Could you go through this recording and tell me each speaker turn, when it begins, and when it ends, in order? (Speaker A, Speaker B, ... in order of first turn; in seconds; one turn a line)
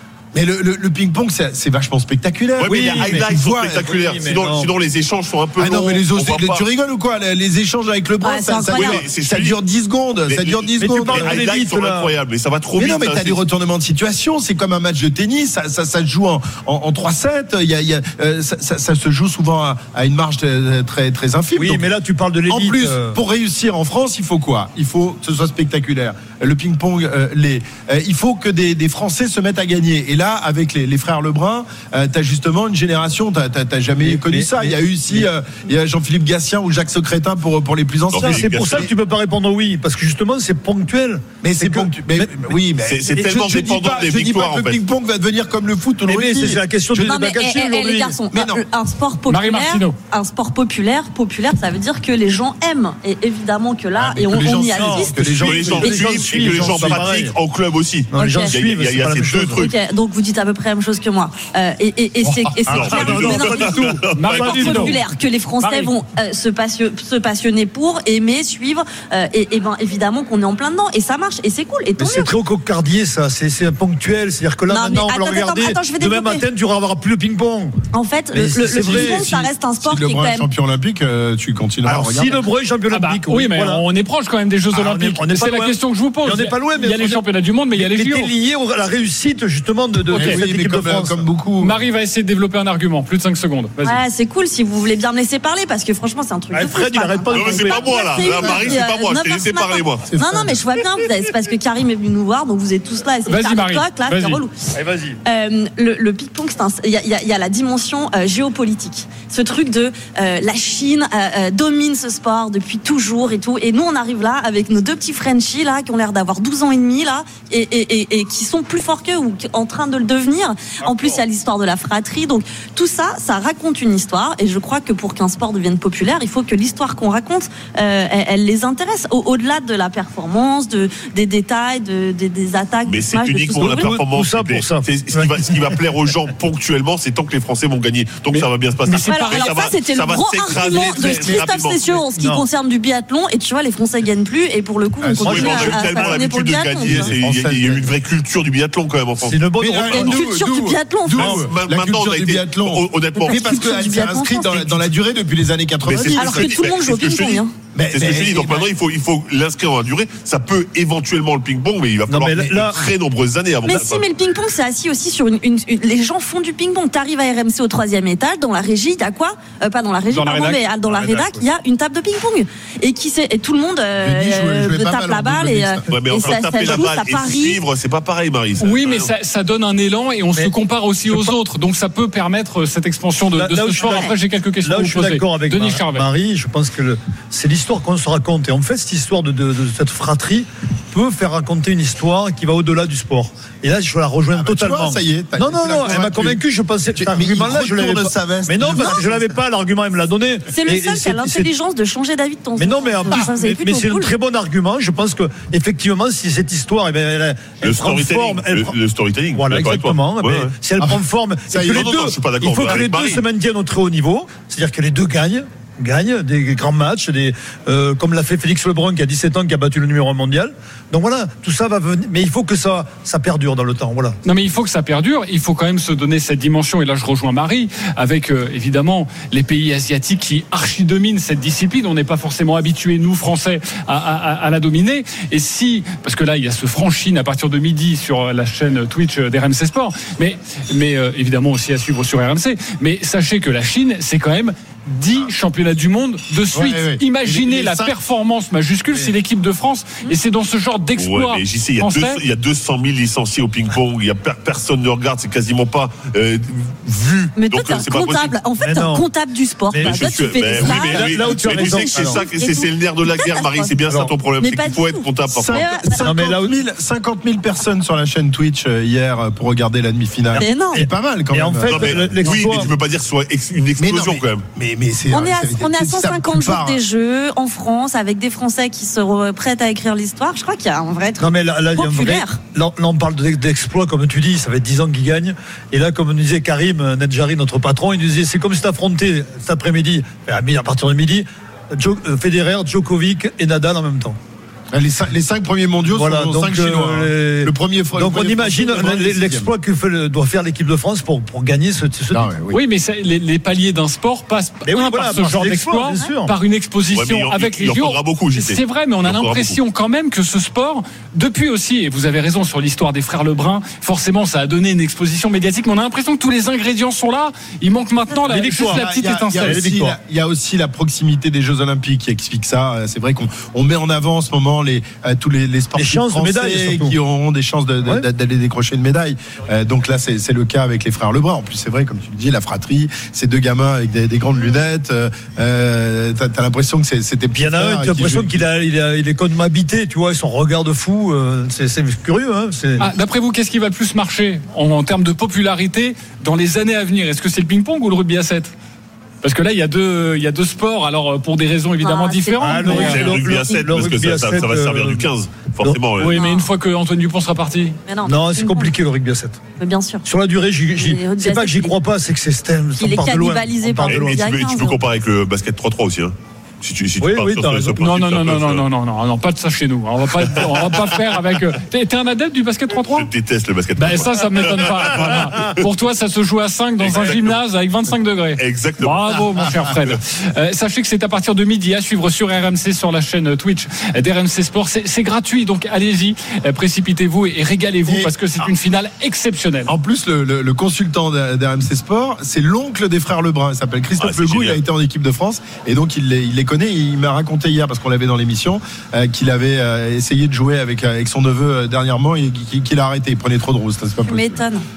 Speaker A: 0.3-4.0
Speaker B: 2.6-6.7
Speaker C: 2.7-4.7
Speaker A: 5.6-11.4
Speaker D: 8.2-9.0
Speaker B: 8.7-9.6
Speaker B: 10.3-13.4
Speaker C: 10.8-12.1
Speaker A: 12.8-21.9
Speaker C: 21.6-23.2
Speaker A: 22.5-38.9
Speaker C: 34.0-35.3
Speaker B: 38.1-38.9
Speaker C: 38.2-42.6
Speaker A: 41.4-47.1
Speaker B: 42.9-44.8
Speaker C: 46.1-48.2
Speaker D: 47.0-56.1
Speaker A: 48.3-48.6
Speaker E: 49.3-50.0
Speaker A: 54.0-55.8
Speaker C: 54.7-57.4
Speaker B: 55.4-59.7
Speaker C: 58.1-59.7
Speaker D: 58.2-58.6
Speaker D: 59.5-72.3
Speaker B: 62.7-64.8
Speaker C: 62.7-64.8
Speaker E: 64.1-65.0
Speaker E: 65.6-65.9
Speaker C: 72.0-77.8
Speaker D: 74.7-76.5
Speaker D: 77.9-80.5
Speaker C: 78.3-79.5
Speaker A: 78.9-82.4
Speaker C: 81.8-83.8
Speaker E: 82.9-88.3
Speaker C: 84.7-87.2
Speaker C: 87.8-91.3
Speaker E: 90.1-90.5
Speaker A: 90.2-91.8
Speaker E: 91.6-94.0
Speaker D: 93.8-104.5
Speaker C: 96.5-98.5
Speaker B: 97.3-100.1
Speaker A: 100.1-100.7
Speaker E: 103.3-104.4
Speaker C: 104.7-105.2
Speaker D: 105.2-134.0
Speaker B: 132.8-142.0
Speaker C: 133.5-135.8
Speaker E: 138.3-139.5
Speaker D: 139.1-147.1
Speaker A: 141.1-141.4
Speaker C: 142.1-142.5
Speaker A: 145.0-145.5
Speaker C: 145.2-146.2
Speaker B: 145.2-150.2
Speaker A: 146.8-147.9
Speaker C: 149.2-150.1
Speaker A: 149.6-156.5
Speaker D: 149.9-151.4
Speaker B: 151.1-153.5
Speaker D: 153.2-154.9
Speaker B: 155.8-164.1
Speaker D: 156.0-157.5
Speaker A: 157.7-158.7
Speaker C: 162.1-162.8
Speaker D: 163.7-177.6
Speaker E: 170.1-170.7
Speaker B: 170.9-171.4
Speaker A: 174.0-175.9
Speaker B: 175.9-179.1
Speaker E: 178.6-186.1
Speaker C: 181.1-181.3
Speaker C: 183.3-184.1
Speaker D: 183.8-184.1
Speaker C: 184.6-201.5
Speaker A: 194.3-196.4
Speaker A: 196.9-199.4
Speaker D: 198.7-199.0
Speaker D: 200.5-204.1
Speaker C: 202.6-208.8
Speaker B: 207.6-210.5
Speaker C: 209.3-224.2
Speaker B: 211.5-213.2
Speaker E: 224.2-252.2
Speaker A: 246.5-247.9
Speaker B: 251.0-258.4
Speaker D: 257.4-266.1
Speaker C: 258.6-259.1
Speaker C: 259.7-262.2
Speaker B: 259.7-265.7
Speaker C: 263.9-264.1
Speaker A: 265.3-272.6
Speaker C: 266.0-266.6
Speaker D: 270.4-270.8
Speaker C: 270.7-272.7
Speaker B: 271.6-274.5
Speaker A: 273.8-276.8
Speaker D: 275.1-282.4
Speaker C: 281.2-294.2
Speaker A: 294.7-299.5
Speaker C: 295.9-302.3
Speaker A: 302.1-302.6
Speaker E: 302.5-319.7
Speaker C: 304.6-306.3
Speaker B: 306.9-309.6
Speaker C: 318.3-320.0
Speaker A: 318.7-338.4
Speaker C: 325.8-327.0
Speaker C: 337.3-342.9
Speaker E: 342.8-348.5
Speaker E: 349.2-353.1
Speaker D: 351.8-353.6
Speaker C: 352.4-355.1
Speaker B: 352.8-356.2
Speaker E: 356.0-357.8
Speaker D: 356.1-356.5
Speaker D: 357.9-358.8
Speaker C: 358.0-359.4
Speaker D: 359.6-360.0
Speaker C: 360.1-364.2
Speaker D: 360.7-361.7
Speaker D: 362.8-364.8
Speaker B: 363.9-368.7
Speaker C: 367.0-367.8
Speaker E: 367.8-373.1
Speaker B: 372.9-375.6
Speaker E: 373.8-389.7
Speaker B: 376.8-377.4
Speaker B: 378.4-379.1
Speaker A: 387.9-388.1
Speaker A: 389.7-404.4
Speaker B: 394.0-394.6
Speaker D: 404.1-404.6